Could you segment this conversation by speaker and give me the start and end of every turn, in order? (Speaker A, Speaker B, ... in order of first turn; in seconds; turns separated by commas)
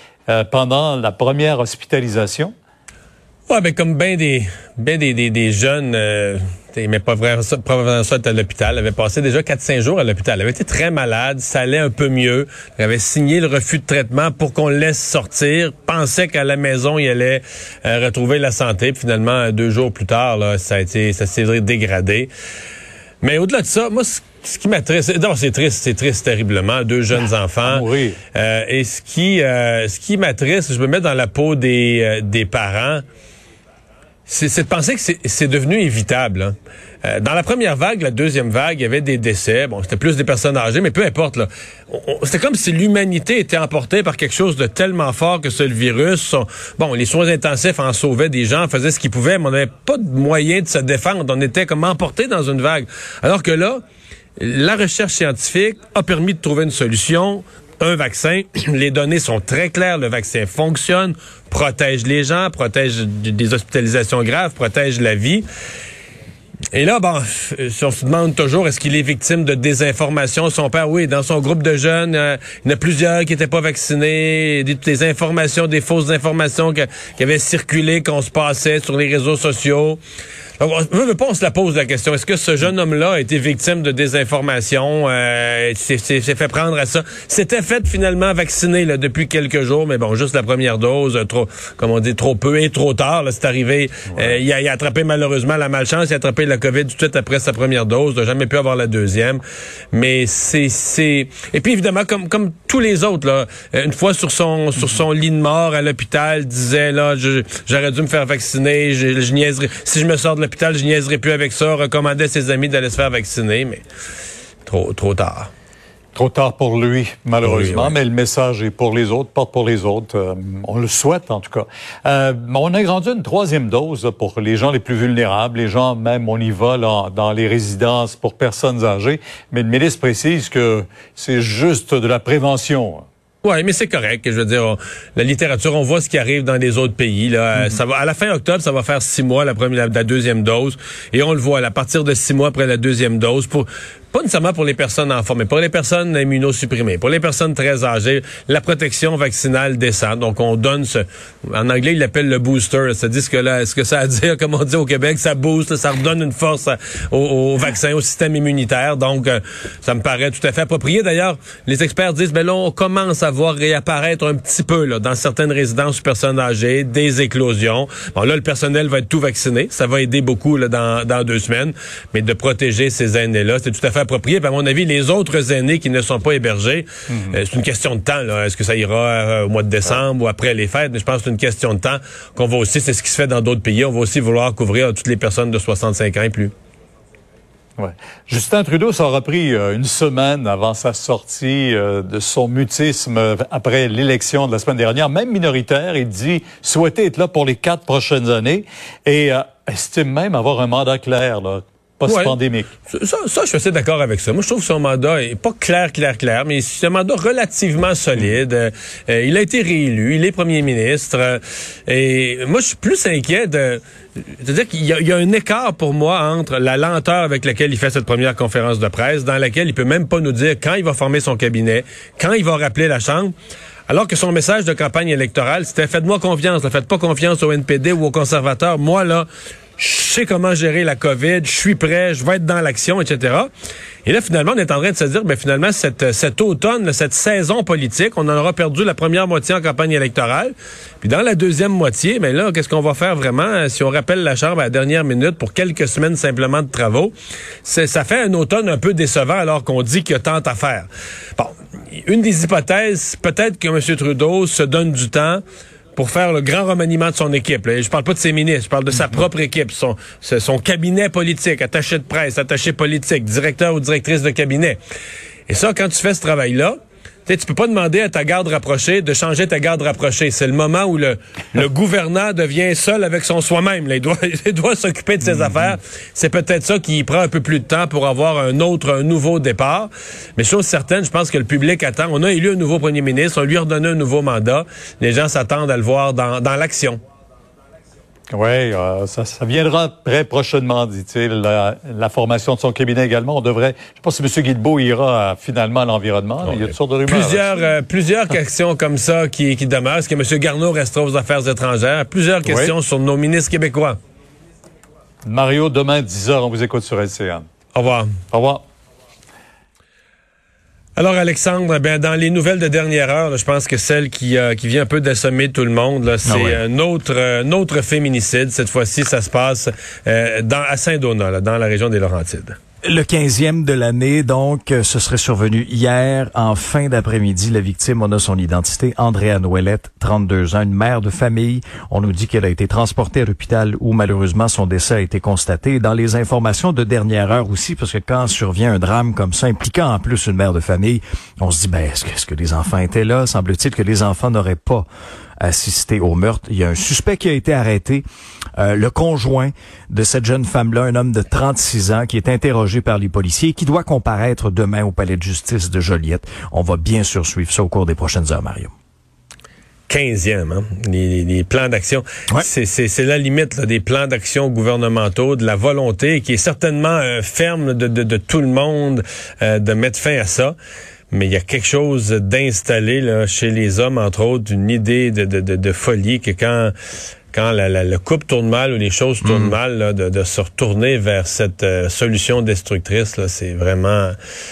Speaker A: 0.3-2.5, Speaker B: 3.5-22.3, Speaker B: 23.2-33.0, Speaker A: 27.6-28.2, Speaker B: 34.3-53.8, Speaker B: 54.4-65.4, Speaker B: 66.7-80.0, Speaker B: 80.6-113.8, Speaker B: 114.7-115.5, Speaker A: 116.1-133.0, Speaker B: 117.4-117.9, Speaker B: 133.4-186.5, Speaker A: 177.1-177.4, Speaker A: 187.8-202.7, Speaker B: 202.0-202.3, Speaker B: 202.9-223.3, Speaker B: 223.9-229.3, Speaker B: 229.8-233.5, Speaker B: 234.0-247.1, Speaker B: 247.6-255.4, Speaker B: 255.9-264.8, Speaker B: 265.5-287.0, Speaker A: 288.3-297.5, Speaker B: 296.4-304.0, Speaker A: 302.4-302.7, Speaker A: 305.2-307.5, Speaker B: 307.7-308.1, Speaker A: 308.3-308.6, Speaker B: 310.9-322.6, Speaker C: 316.2-316.6, Speaker C: 322.8-344.9, Speaker C: 345.4-348.0, Speaker C: 348.6-358.7, Speaker B: 359.9-370.6, Speaker B: 371.1-376.7, Speaker B: 377.3-384.1, Speaker C: 379.2-379.6